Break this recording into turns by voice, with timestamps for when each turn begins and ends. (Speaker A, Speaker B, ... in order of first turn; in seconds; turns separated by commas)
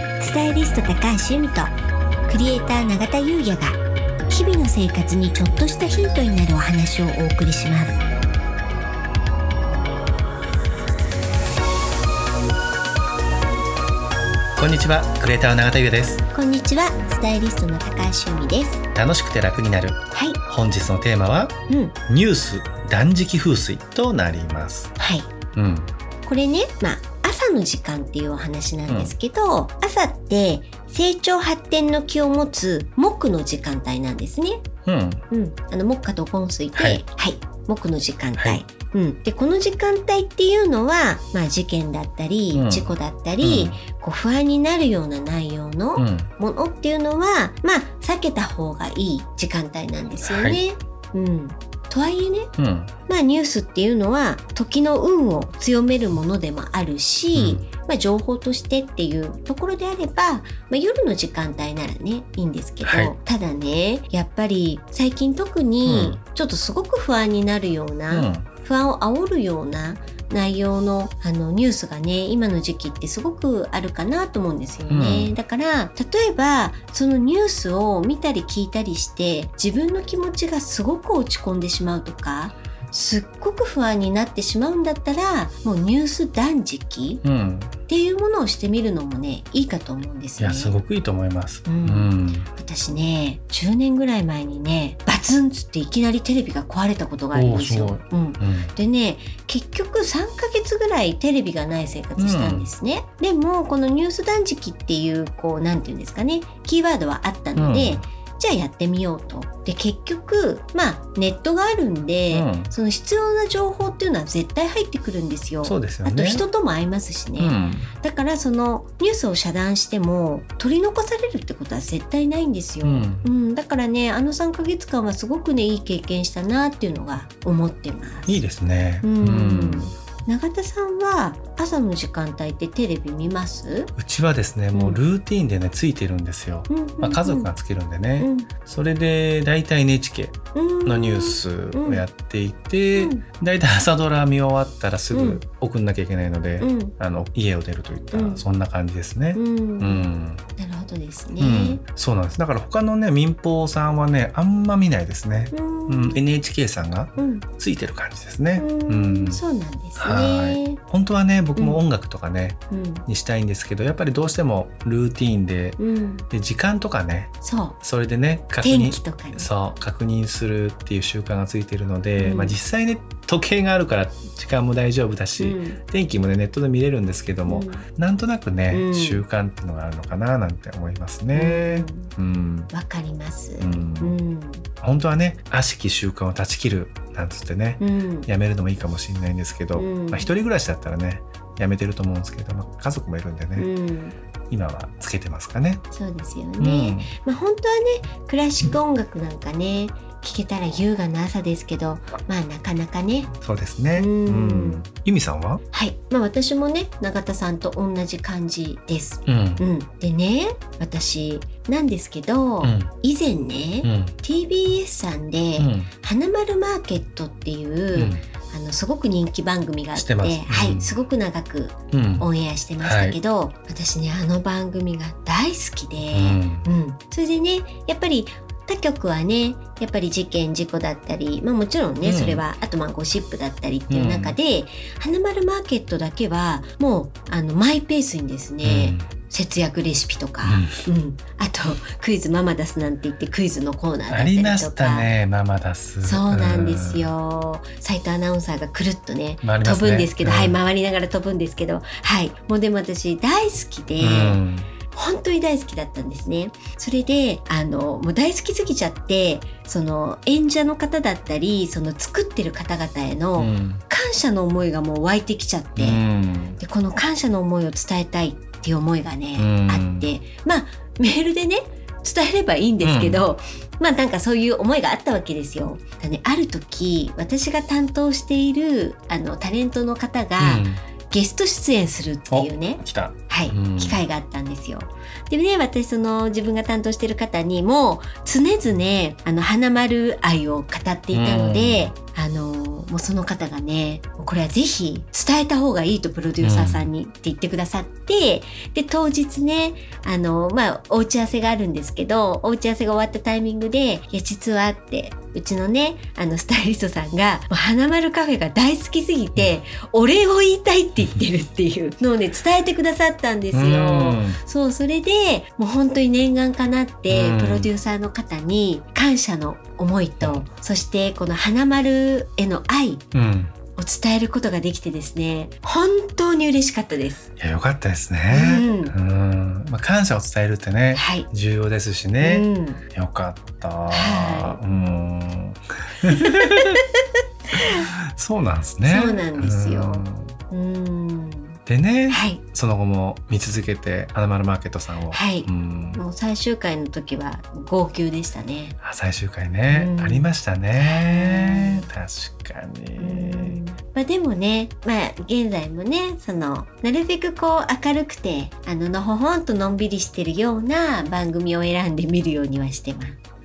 Speaker A: 0.2-1.7, Speaker A: 2.3-3.8, Speaker A: 4.3-8.0, Speaker B: 14.6-16.2, Speaker A: 16.3-18.8, Speaker B: 18.9-21.5, Speaker A: 20.1-20.4, Speaker A: 21.7-21.9, Speaker B: 22.1-24.9, Speaker A: 25.0-25.3, Speaker B: 25.6-25.9, Speaker A: 26.3-34.6, Speaker B: 28.9-29.1, Speaker B: 34.9-35.2, Speaker A: 35.3-52.5, Speaker B: 36.7-37.0, Speaker B: 38.4-38.6, Speaker B: 42.5-42.9, Speaker B: 43.4-43.8, Speaker B: 46.0-46.3, Speaker B: 50.2-50.6, Speaker B: 52.6-52.9, Speaker A: 53.1-87.2, Speaker B: 57.4-57.6, Speaker B: 62.9-63.1, Speaker B: 65.8-66.2, Speaker B: 68.1-68.5, Speaker B: 74.9-75.4, Speaker B: 87.2-87.8, Speaker A: 87.9-90.8, Speaker B: 90.4-92.5, Speaker A: 91.7-128.4, Speaker B: 97.3-98.7, Speaker B: 102.2-102.7, Speaker B: 107.5-108.1, Speaker B: 112.3-112.7, Speaker B: 115.6-116.5, Speaker B: 117.4-117.9, Speaker B: 122.8-123.3, Speaker B: 128.3-129.9, Speaker A: 129.0-133.9, Speaker B: 134.0-150.4, Speaker A: 134.7-135.0, Speaker A: 136.7-137.5, Speaker A: 138.2-138.5, Speaker A: 140.6-142.0, Speaker A: 143.0-143.2, Speaker A: 145.1-145.4, Speaker A: 146.6-146.9, Speaker A: 148.1-148.4, Speaker A: 149.3-150.1, Speaker A: 150.6-151.8, Speaker B: 151.4-159.4, Speaker A: 155.5-156.2, Speaker A: 157.2-157.5, Speaker A: 158.6-160.8, Speaker B: 160.0-165.8, Speaker A: 161.6-161.8, Speaker A: 162.7-163.1, Speaker A: 165.8-166.2, Speaker B: 166.3-182.7, Speaker A: 167.4-167.8, Speaker A: 168.6-169.5, Speaker A: 172.2-172.6, Speaker A: 175.4-175.8, Speaker A: 177.5-177.8, Speaker A: 178.7-179.2, Speaker A: 181.3-182.1, Speaker A: 182.7-184.7, Speaker B: 183.6-184.2, Speaker B: 184.8-193.7, Speaker A: 187.8-188.3, Speaker A: 189.8-190.3, Speaker A: 193.6-194.2, Speaker B: 194.5-195.8, Speaker A: 195.9-203.3, Speaker B: 196.6-197.1, Speaker B: 203.4-205.6, Speaker A: 204.0-204.8, Speaker A: 205.7-245.1, Speaker B: 209.3-209.7, Speaker B: 212.6-212.9, Speaker B: 213.8-214.2, Speaker B: 215.6-215.9, Speaker B: 217.9-218.2, Speaker B: 220.0-221.0, Speaker B: 221.9-222.3, Speaker B: 222.8-223.2, Speaker B: 226.1-226.7, Speaker B: 232.0-232.4, Speaker B: 233.9-234.4, Speaker B: 238.6-239.1, Speaker B: 240.4-240.9, Speaker B: 244.1-247.1, Speaker A: 246.0-254.4, Speaker B: 249.4-250.6, Speaker B: 254.0-254.7, Speaker A: 254.9-266.0, Speaker B: 263.4-263.8, Speaker B: 265.8-266.6, Speaker A: 266.6-323.0, Speaker B: 269.4-270.1, Speaker B: 272.8-273.2, Speaker B: 280.4-280.8, Speaker B: 282.3-284.0, Speaker B: 291.1-291.9, Speaker B: 296.4-296.9, Speaker B: 313.5-314.4, Speaker B: 317.1-317.7, Speaker B: 323.1-323.5, Speaker A: 323.8-327.3, Speaker B: 327.4-336.8, Speaker A: 328.3-328.9, Speaker A: 330.9-331.3, Speaker A: 332.2-332.8, Speaker A: 333.9-334.6, Speaker A: 336.4-336.8, Speaker A: 337.5-337.9, Speaker B: 337.5-340.4, Speaker A: 338.8-341.6, Speaker B: 341.7-346.0, Speaker A: 342.1-342.4, Speaker A: 345.1-348.8, Speaker B: 348.8-353.6, Speaker A: 349.7-351.9, Speaker A: 353.0-363.2